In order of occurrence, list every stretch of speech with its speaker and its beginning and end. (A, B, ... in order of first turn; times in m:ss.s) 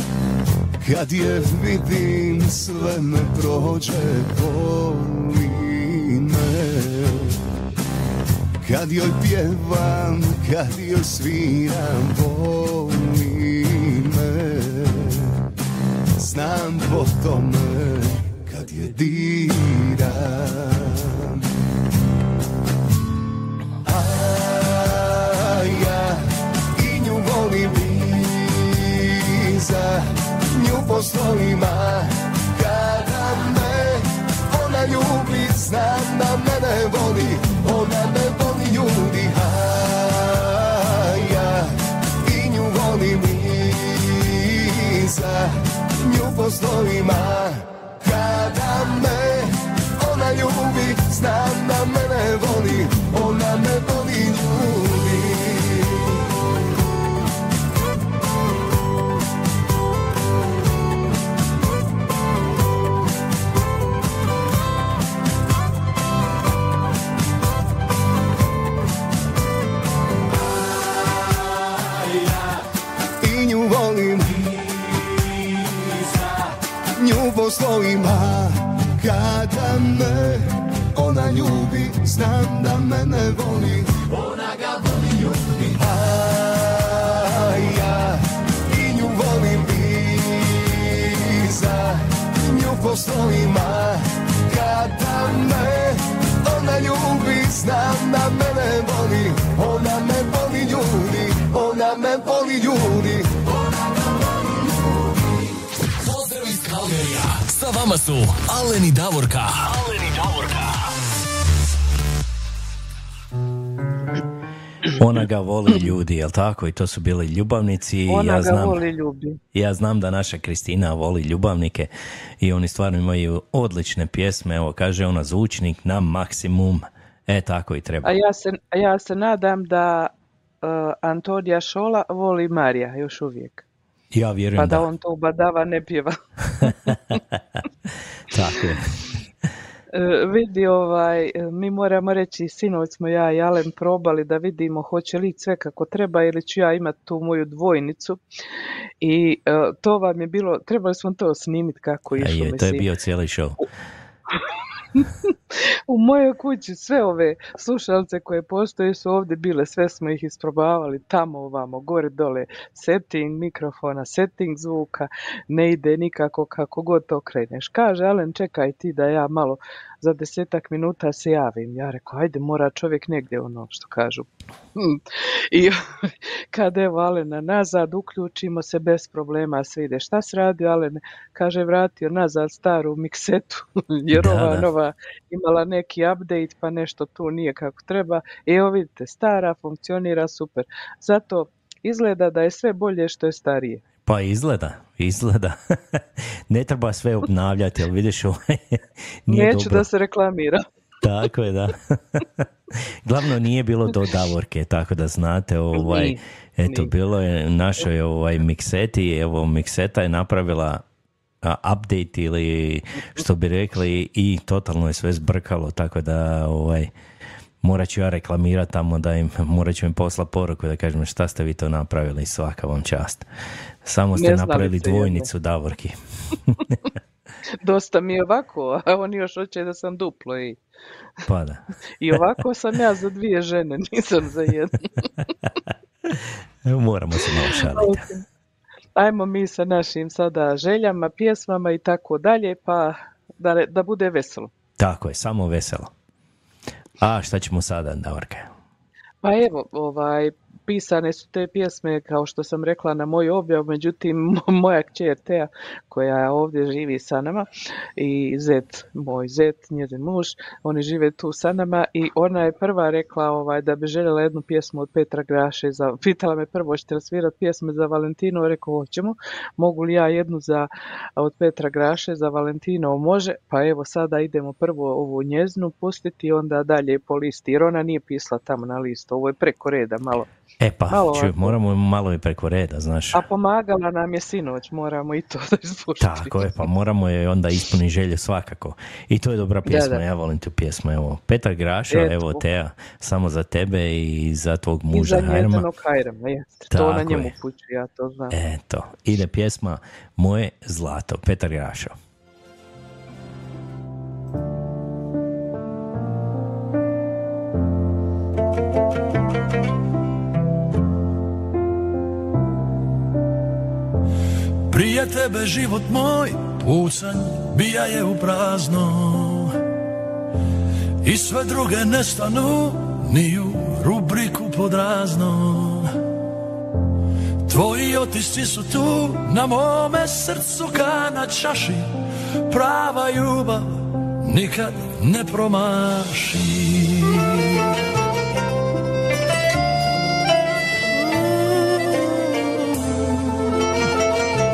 0:00.8-0:07.4 A
0:08.6-0:15.3 A
0:16.2-0:21.4 A
0:23.8-0:56.1 A
1:13.2-1:14.6 A
1:17.0-1:24.0 A
1:25.6-1:43.4 A
1:46.0-1:50.9 B
1:55.0-1:58.8 C
1:58.1-1:59.4 D
1:59.5-2:01.9 C
2:02.4-2:08.2 C
2:08.0-2:10.1 D
2:10.6-2:13.6 D
2:14.1-2:14.9 C
2:14.6-2:16.2 D
2:18.3-2:19.0 C
2:19.9-2:28.2 D
2:29.0-2:32.8 D
2:32.2-2:33.6 C
2:35.0-2:35.3 D
2:35.9-2:55.8 D
2:56.5-3:13.8 D
3:04.1-3:04.7 C
3:14.1-3:19.9 C
3:19.3-3:20.6 D
3:21.0-3:22.2 C
3:23.0-3:30.8 C
3:25.8-3:26.9 D
3:31.4-3:36.9 C
3:37.6-3:43.3 C
3:43.8-3:46.0 C
3:44.2-3:45.3 D
3:47.6-3:50.6 D
3:51.3-3:51.6 C
3:52.0-3:54.9 D
3:56.1-3:58.0 C
3:57.7-3:58.2 D
3:59.0-4:04.5 D
4:04.8-4:05.9 C
4:07.0-4:08.5 C
4:09.2-4:40.3 D
4:40.6-4:43.2 C
4:40.9-4:41.6 D
4:43.1-4:46.3 D
4:46.0-4:55.6 C
4:49.7-4:50.0 D
4:51.9-4:52.4 D
4:54.9-4:58.4 D
4:56.7-4:57.3 C
4:58.3-5:01.9 C
5:14.7-5:19.6 E
5:21.0-5:26.0 E
5:27.5-5:31.9 E
5:32.5-5:37.7 E
5:41.6-5:42.0 E